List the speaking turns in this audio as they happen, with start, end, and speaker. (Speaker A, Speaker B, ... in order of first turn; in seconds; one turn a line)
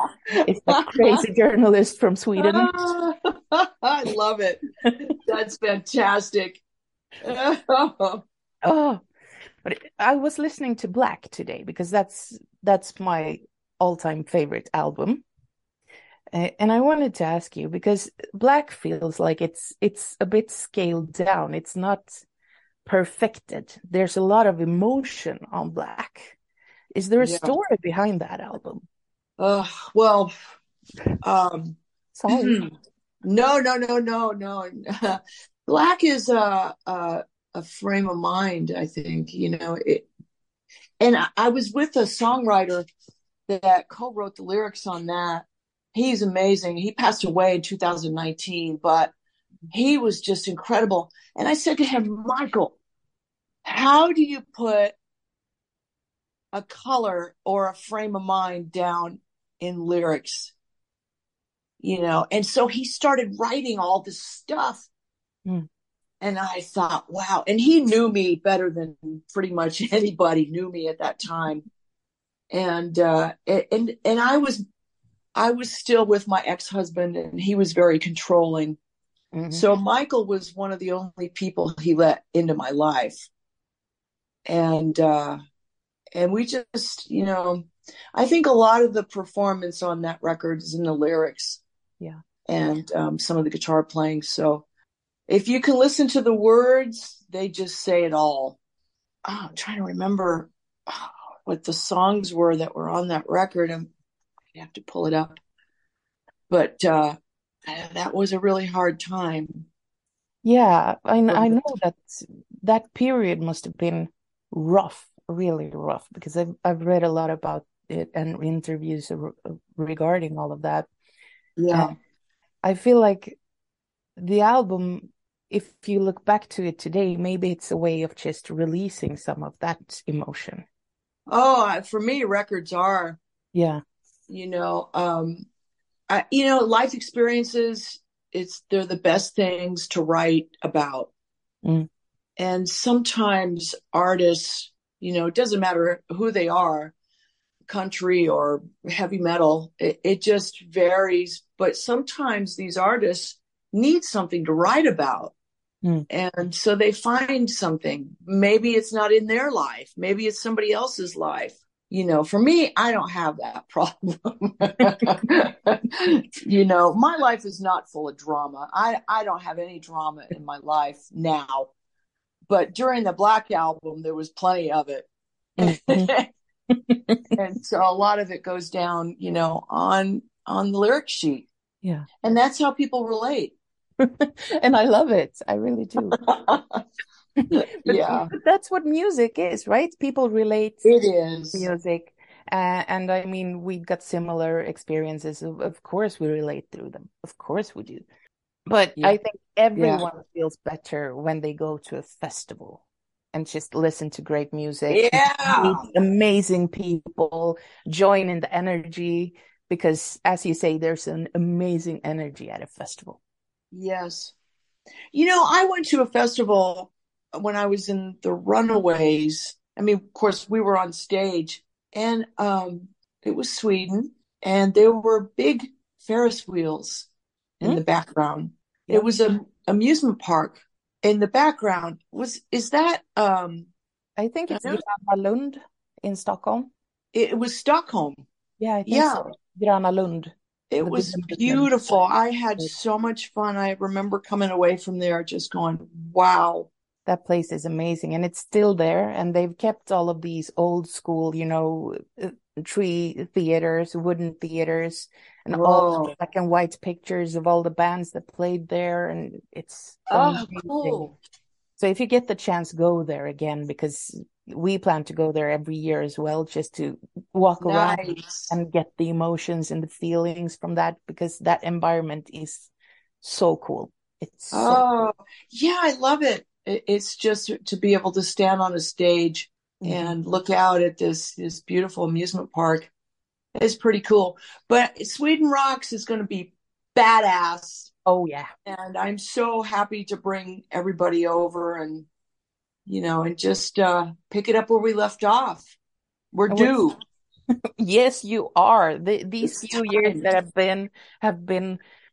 Speaker A: 0.4-2.9
Speaker B: 2.4-6.6
Speaker B: 7.2-8.2
Speaker A: 8.6-9.0
Speaker A: 9.6-15.2
Speaker A: 16.3-22.2
Speaker A: 22.9-26.4
Speaker A: 27.0-28.8
Speaker B: 27.2-27.5
Speaker B: 29.4-30.3
Speaker B: 31.2-32.7
Speaker A: 32.1-32.6
Speaker B: 33.2-40.1
Speaker B: 41.0-42.9
Speaker B: 43.5-49.1
Speaker B: 49.7-52.8
Speaker B: 53.7-55.0
Speaker B: 56.5-60.5
Speaker B: 61.8-64.9
Speaker B: 66.2-71.7
Speaker B: 72.5-74.6
Speaker B: 75.4-78.8
Speaker A: 79.3-79.7
Speaker B: 79.5-83.3
Speaker B: 84.5-85.4
Speaker B: 86.2-91.6
Speaker B: 92.5-94.7
Speaker B: 95.3-98.6
Speaker B: 99.3-103.9
Speaker B: 104.5-105.4
Speaker B: 106.5-107.2
Speaker B: 107.7-109.7
Speaker A: 110.4-120.9
Speaker B: 111.3-111.6
Speaker B: 121.6-121.9
Speaker A: 122.6-123.4
Speaker A: 124.2-130.7
Speaker B: 131.3-133.2
Speaker A: 133.5-133.8
Speaker B: 134.3-135.5
Speaker B: 136.1-141.1
Speaker B: 142.4-146.9
Speaker B: 147.7-155.3
Speaker B: 156.1-171.7
Speaker B: 172.5-175.1
Speaker A: 175.6-176.1
Speaker B: 175.6-176.3
Speaker A: 176.7-177.2
Speaker B: 177.4-181.5
Speaker B: 182.2-183.6
Speaker A: 184.0-186.2
Speaker B: 186.2-186.8
Speaker A: 187.4-190.9
Speaker B: 187.5-188.3
Speaker B: 190.8-191.7
Speaker A: 191.5-198.1
Speaker A: 198.7-213.2
Speaker B: 199.8-200.1
Speaker B: 204.9-205.8
Speaker B: 213.7-214.3
Speaker B: 215.1-227.1
Speaker B: 227.6-233.7
Speaker A: 228.9-229.3
Speaker A: 234.2-236.7
Speaker B: 234.5-234.8
Speaker B: 237.1-238.2
Speaker A: 238.6-241.7
Speaker B: 238.9-239.3
Speaker B: 240.7-246.7
Speaker A: 247.1-261.1
Speaker B: 255.5-256.1
Speaker B: 260.1-261.1
Speaker A: 261.8-274.9
Speaker B: 267.6-268.6
Speaker B: 274.5-282.9
Speaker A: 279.8-280.2
Speaker B: 283.6-287.9
Speaker A: 288.1-288.5
Speaker B: 288.7-292.1
Speaker B: 292.9-295.7
Speaker B: 296.3-297.0
Speaker A: 296.5-296.8
Speaker A: 297.8-301.8
Speaker B: 299.4-300.3